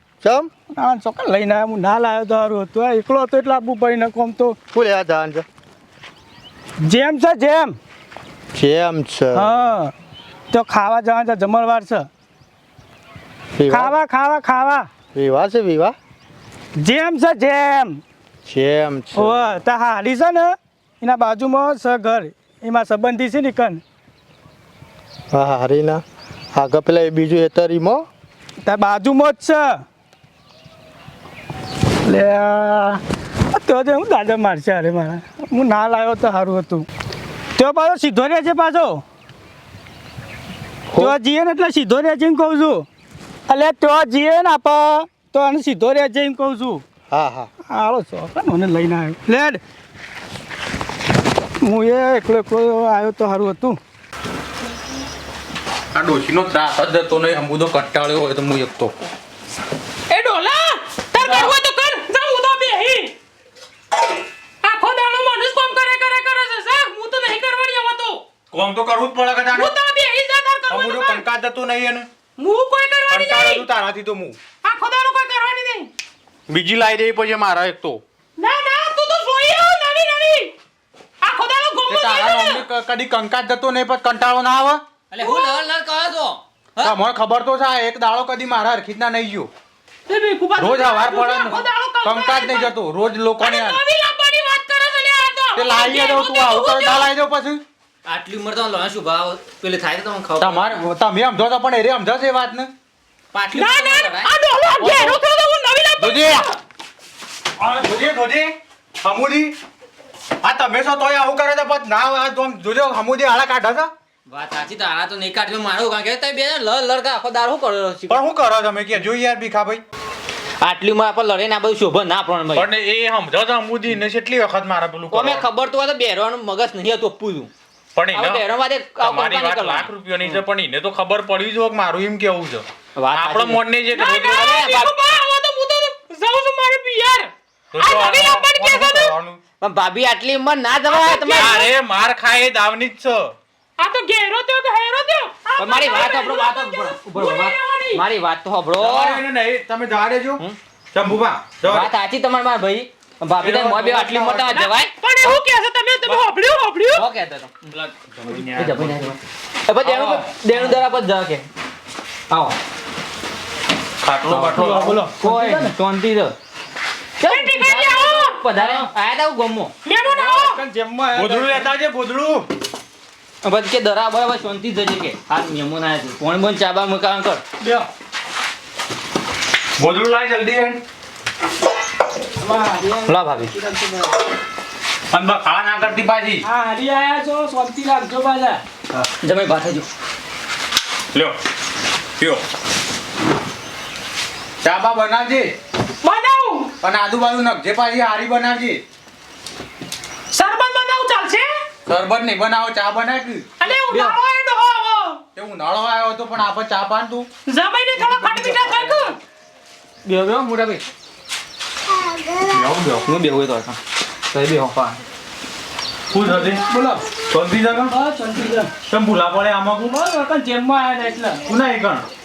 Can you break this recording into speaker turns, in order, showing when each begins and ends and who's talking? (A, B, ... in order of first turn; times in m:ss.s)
0:00.2-0:00.5 A
0:00.7-0:04.6 B
0:04.7-0:05.5 A
0:06.8-0:07.8 B
0:08.5-0:09.6 A
0:09.4-0:09.9 B
0:10.5-0:12.1 B
0:13.6-0:13.9 A
0:13.7-0:14.9 B
0:15.1-0:16.0 A
0:16.8-0:18.0 B
0:18.5-0:19.5 A
0:19.2-0:23.8 B
0:25.3-0:26.0 A
0:26.5-0:28.1 A
0:28.6-0:29.8 B
0:32.0-0:33.0 B
0:33.5-0:36.9 B
0:37.6-0:39.0 B
0:41.0-0:42.9 B
0:43.5-0:46.8 B
0:47.1-0:47.5 A
0:47.7-0:49.6 B
0:51.6-0:53.8 B
0:55.9-0:58.9 C
1:00.1-1:03.1 D
1:04.6-1:08.2 D
1:08.5-1:09.8 C
1:09.5-1:11.2 D
1:10.7-1:12.1 C
1:12.4-1:13.7 D
1:13.1-1:14.4 C
1:14.6-1:15.9 D
1:16.5-1:18.0 C
1:18.4-1:20.5 D
1:21.2-1:22.6 D
1:21.9-1:24.8 C
1:25.1-1:26.9 E
1:25.2-1:25.7 D
1:26.8-1:29.5 C
1:30.1-1:32.8 D
1:30.6-1:33.8 C
1:33.4-1:37.1 D
1:35.6-1:37.6 C
1:38.1-1:40.6 E
1:40.4-1:42.7 C
1:43.3-1:44.2 E
1:43.5-1:46.5 D
1:44.8-1:45.2 C
1:46.0-1:46.5 C
1:47.6-1:49.6 C
1:50.4-1:53.9 C
1:54.3-1:58.2 E
1:58.1-1:59.8 C
2:00.6-2:02.7 E
2:02.5-2:05.5 C
2:05.1-2:07.5 E
2:08.0-2:14.9 C
2:08.2-2:10.4 E
2:13.0-2:13.6 E
2:13.9-2:19.1 D
2:17.7-2:19.4 C
2:19.6-2:21.5 E
2:20.9-2:21.7 D
2:21.2-2:23.4 C
2:23.8-2:28.0 D
2:25.6-2:29.2 E
2:28.7-2:31.9 C
2:31.6-2:34.9 E
2:33.4-2:34.6 C
2:34.5-2:37.1 D
2:37.0-2:37.5 E
2:37.9-2:39.2 C
2:38.4-2:39.2 E
2:39.8-2:41.4 E
2:39.8-2:40.9 C
2:44.0-2:45.2 C
2:44.3-2:45.8 B
2:45.2-2:46.3 E
2:47.3-2:48.7 D
2:47.3-2:49.7 E
2:49.8-2:50.6 D
2:50.1-2:51.7 B
2:51.1-2:52.5 C
2:53.4-2:57.4 E
2:59.8-3:00.8 C
3:02.4-3:03.1 B
3:03.1-3:03.5 E
3:05.1-3:06.4 C
3:06.4-3:08.6 B
3:09.2-3:09.9 E
3:11.1-3:11.4 C
3:12.2-3:12.4 C
3:14.6-3:15.5 C
3:16.0-3:16.7 D
3:16.8-3:18.8 C
3:20.3-3:21.5 D
3:21.9-3:23.5 C
3:23.6-3:25.2 D
3:23.8-3:24.1 E
3:25.4-3:27.3 C
3:27.5-3:29.2 D
3:28.0-3:28.6 C
3:30.1-3:30.8 E
3:32.5-3:33.1 C
3:33.1-3:33.8 E
3:34.3-3:35.0 E
3:36.1-3:36.6 C
3:36.3-3:37.0 B
3:37.3-3:37.9 C
3:37.9-3:38.7 B
3:38.9-3:40.0 C
3:39.9-3:41.4 B
3:41.5-3:42.1 C